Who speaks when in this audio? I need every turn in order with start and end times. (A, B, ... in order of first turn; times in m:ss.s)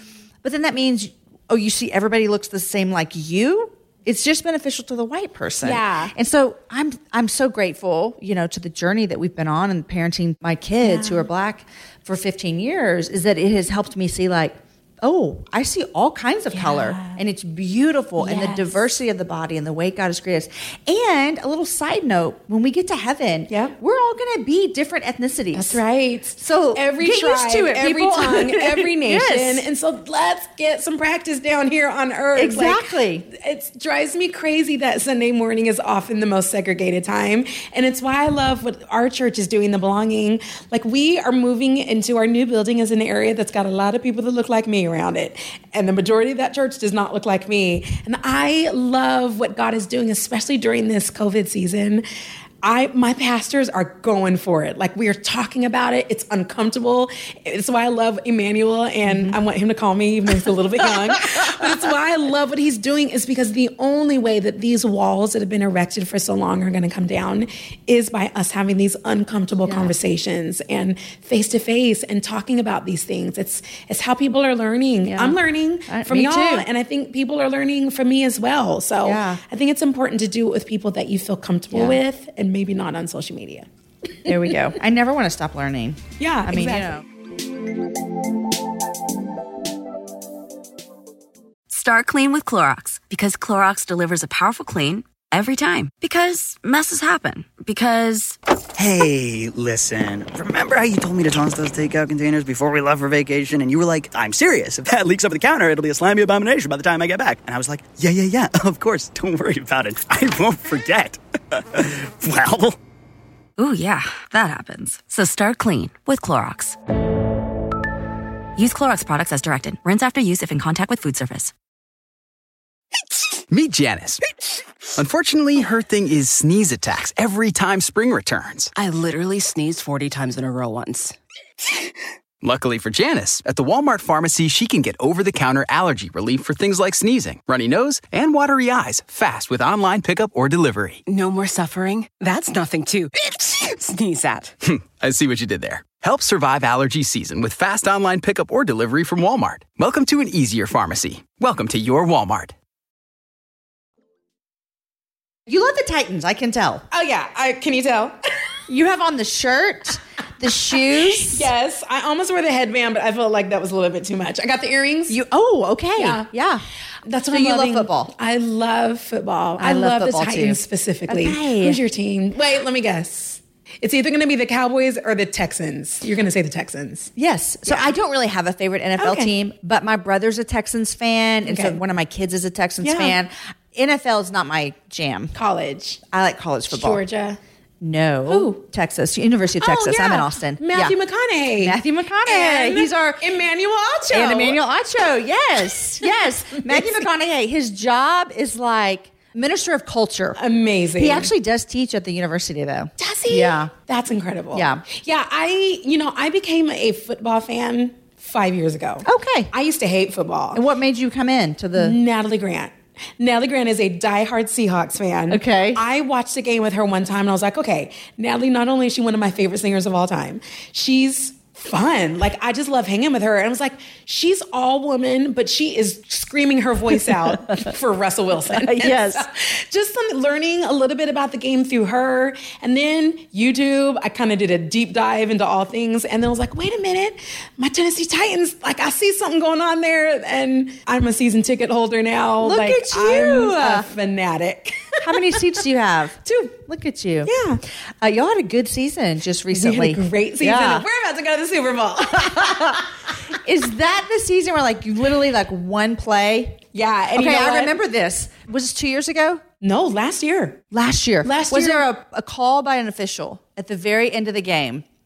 0:00.4-0:25.8 A
0:05.6-0:06.1 B
0:10.8-0:11.3 B
0:16.5-0:17.2 B
0:18.2-0:18.8 B
0:23.5-0:23.8 B
0:25.5-0:52.0 B
0:26.4-0:29.6 A
0:32.3-0:33.2 A
0:52.6-1:23.7 B
0:59.1-0:59.4 A
1:01.1-1:01.4 A
1:09.6-1:09.9 A
1:15.1-1:16.6 A
1:19.0-1:19.4 A
1:21.7-1:22.0 A
1:24.2-1:27.0 A
1:26.2-1:26.9 B
1:31.7-1:38.4 C
1:38.7-1:52.8 D
1:53.6-1:56.8 C
1:58.6-2:01.5 C
2:03.5-2:04.2 E
2:05.0-2:08.7 E
2:08.7-2:11.2 F
2:12.4-2:21.0 E
2:21.0-2:24.6 F
2:24.6-2:32.5 E
2:35.5-2:36.8 A
2:36.9-2:38.1 B
2:38.7-2:41.5 A
2:40.7-2:45.2 B
2:45.1-2:46.6 A
2:46.0-2:46.3 B
2:47.0-2:57.1 B
2:47.3-2:48.1 A
2:49.6-2:51.8 A
2:57.2-3:05.3 A
2:57.6-2:57.9 B
2:59.0-2:59.3 B
3:01.5-3:01.8 B
3:02.8-3:03.2 B
3:05.3-3:06.0 B
3:06.1-3:07.0 A
3:06.7-3:07.4 B
3:07.8-3:11.0 A
3:08.3-3:08.6 B
3:09.6-3:14.6 B
3:11.6-3:13.2 A
3:14.1-3:20.4 A
3:16.0-3:17.1 B
3:20.4-3:21.3 B
3:21.0-3:23.7 A
3:23.0-3:30.6 B
3:24.5-3:24.8 A
3:29.0-3:29.5 A
3:30.5-3:32.0 A
3:31.8-4:05.4 B
3:35.3-3:35.8 A
3:47.0-3:47.7 A
3:48.5-3:49.2 A
4:02.4-4:03.9 A
4:05.0-4:07.3 A
4:06.2-4:06.5 B
4:07.2-4:07.6 B
4:08.0-4:10.8 A
4:09.5-4:12.8 B
4:12.2-4:16.6 A
4:16.7-4:17.7 B
4:17.1-4:19.4 A
4:19.6-4:20.6 B
4:20.7-4:24.8 A
4:21.2-4:21.9 B